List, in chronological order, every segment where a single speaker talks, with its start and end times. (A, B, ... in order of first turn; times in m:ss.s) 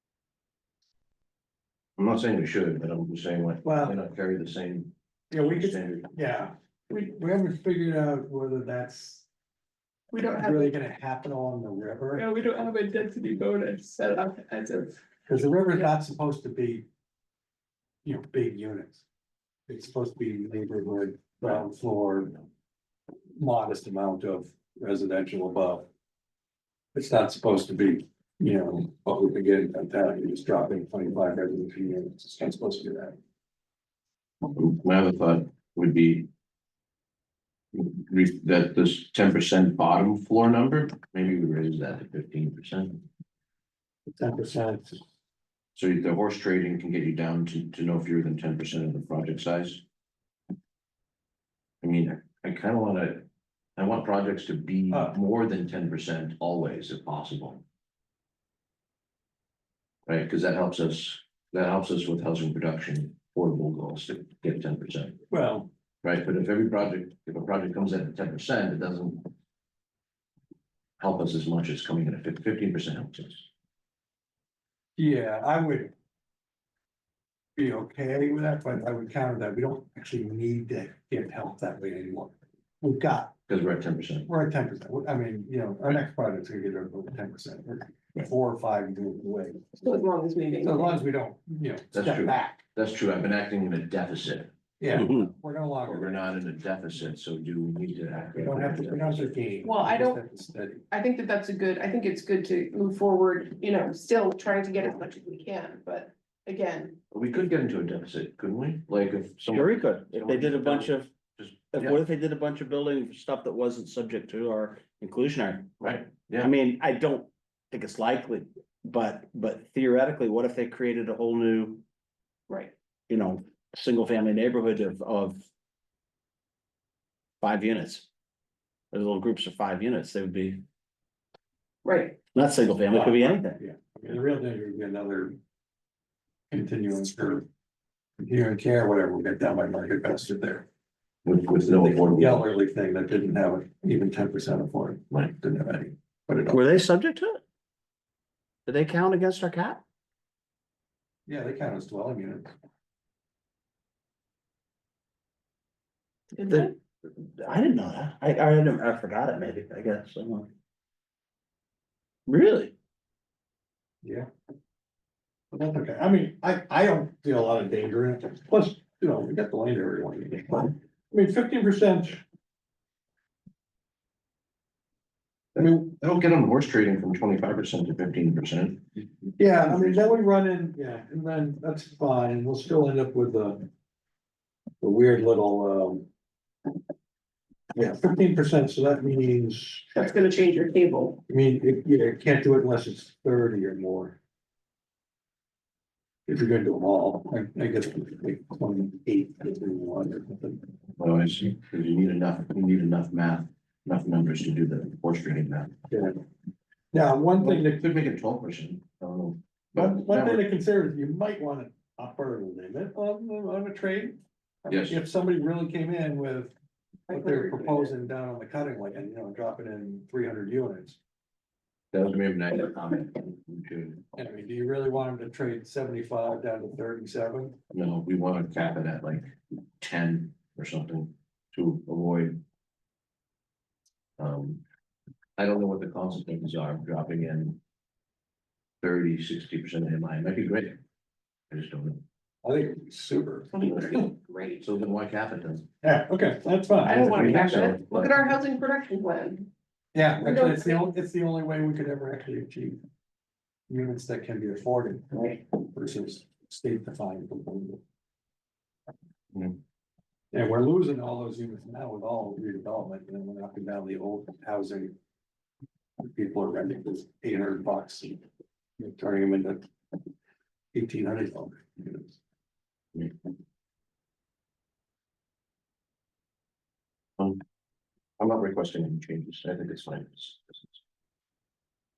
0:02.0-0:06.1 A
0:03.6-0:04.0 B
0:05.3-0:09.3 B
0:10.1-0:10.7 C
0:10.4-0:12.2 B
0:12.1-0:14.9 C
0:15.3-0:16.8 B
0:18.0-0:19.0 B
0:19.7-0:22.4 B
0:23.3-0:25.9 B
0:26.9-0:33.2 B
0:34.5-0:36.3 A
0:37.7-0:43.0 A
0:44.2-0:45.0 B
0:45.7-0:49.8 A
0:51.8-0:53.2 A
0:53.8-0:57.6 A
0:54.9-0:55.2 B
1:00.0-1:05.2 A
1:05.3-1:05.7 B
1:06.0-1:09.3 A
1:11.0-1:13.5 A
1:15.0-1:15.9 B
1:17.6-1:23.3 B
1:23.5-1:24.3 A
1:24.3-1:29.7 B
1:29.8-1:31.0 C
1:30.6-1:32.6 B
1:31.9-1:34.5 A
1:34.8-1:36.2 B
1:35.0-1:35.2 D
1:35.8-1:39.2 A
1:38.3-1:40.8 B
1:39.6-1:40.2 C
1:40.9-1:47.0 C
1:47.1-1:52.0 A
1:49.5-1:51.1 D
1:51.7-1:55.7 D
1:55.8-1:56.5 A
1:56.4-2:01.8 D
2:03.1-2:05.5 D
2:07.4-2:08.1 D
2:08.9-2:10.6 D
2:11.8-2:12.2 C
2:12.3-2:13.6 D
2:12.9-2:15.4 B
2:16.5-2:17.4 B
2:18.2-2:20.6 B
2:21.2-2:22.4 A
2:21.7-2:26.6 B
2:26.5-2:27.4 D
2:28.7-2:29.8 D
2:31.2-2:32.5 B
2:36.4-2:36.7 C
2:36.5-2:40.5 D
2:42.3-2:42.7 D
2:44.0-2:44.3 B
2:45.5-2:52.2 B
2:55.5-2:58.8 A
2:59.4-3:03.7 B
3:04.8-3:06.0 B
3:07.7-3:10.0 B
3:09.9-3:11.2 C
3:11.3-3:14.2 B
3:16.3-3:20.6 B
3:21.0-3:25.8 A
3:25.9-3:26.2 B
3:26.9-3:27.8 B
3:27.4-3:30.4 A
3:29.7-3:36.5 B
3:34.7-3:35.0 A
3:37.1-3:37.9 C
3:37.1-3:41.0 B
3:41.9-3:44.0 A
3:44.2-3:47.6 B
3:47.7-3:52.4 A
3:54.2-3:54.6 A
3:55.4-3:57.6 A
3:58.8-4:00.8 A
4:01.5-4:02.0 A
4:02.4-4:03.5 B
4:03.5-4:04.7 C
4:04.6-4:05.6 A
4:05.8-4:07.1 B
4:06.8-4:09.5 C
4:06.8-4:08.2 A
4:09.9-4:12.8 B
4:10.2-4:10.9 C
4:13.7-4:17.8 B
4:20.3-4:24.9 B
4:26.0-4:28.2 B
4:28.8-4:29.7 B
4:30.7-4:32.2 B
4:38.2-4:40.8 A